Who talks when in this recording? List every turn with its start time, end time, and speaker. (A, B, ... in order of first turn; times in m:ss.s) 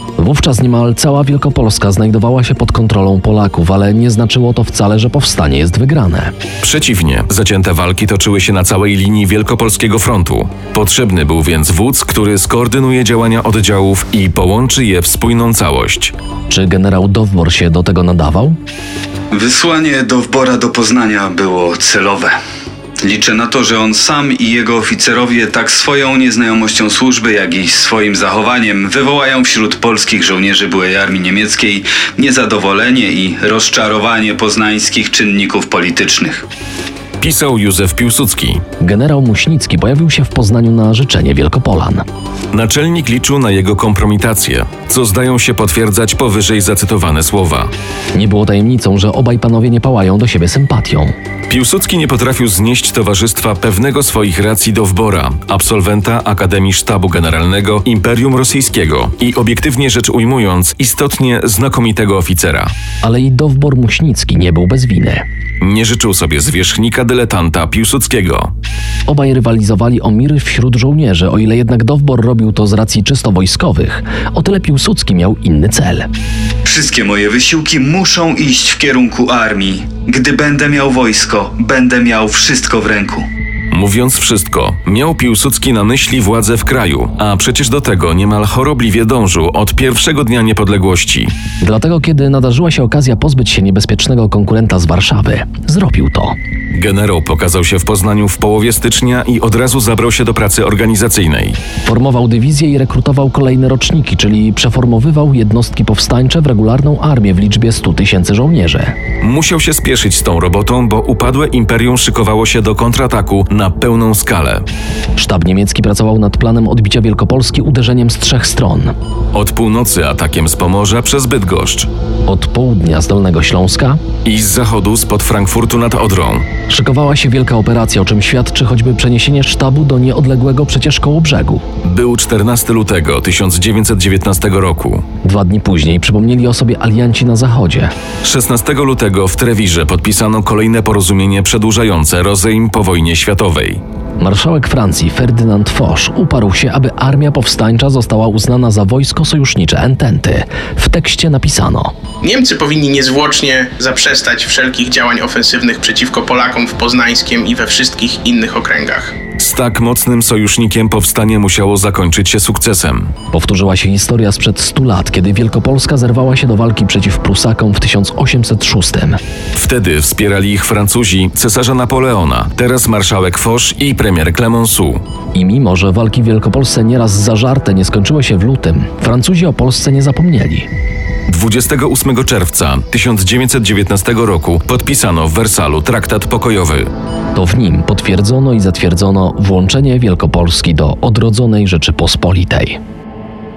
0:00.2-0:06.3 A
0:06.6-0:16.1 B
0:16.5-0:18.6 A
0:19.3-0:22.3 C
0:23.0-0:36.5 C
0:37.2-0:38.6 B
0:38.8-0:42.0 A
0:42.5-0:47.7 B
0:48.1-0:51.1 A
0:51.5-1:02.7 B
1:03.0-1:05.2 A
1:05.6-1:08.5 B
1:09.1-1:16.1 A
1:16.6-1:23.3 C
1:23.7-1:31.3 B
1:31.6-1:36.4 A
1:36.7-1:41.6 B
1:41.8-1:49.0 A
1:49.2-1:54.6 B
1:55.2-1:58.9 A
1:59.3-2:01.9 B
2:02.2-2:04.0 A
2:04.2-2:06.5 B
2:06.7-2:11.6 A
2:11.8-2:15.1 B
2:15.2-2:17.9 A
2:18.2-2:23.8 B
2:24.2-2:31.9 A
2:32.2-2:39.1 D
2:39.4-2:43.1 B
2:43.3-2:49.2 A
2:49.6-2:55.0 B
2:55.3-3:00.7 A
3:01.3-3:06.9 B
3:07.4-3:12.8 A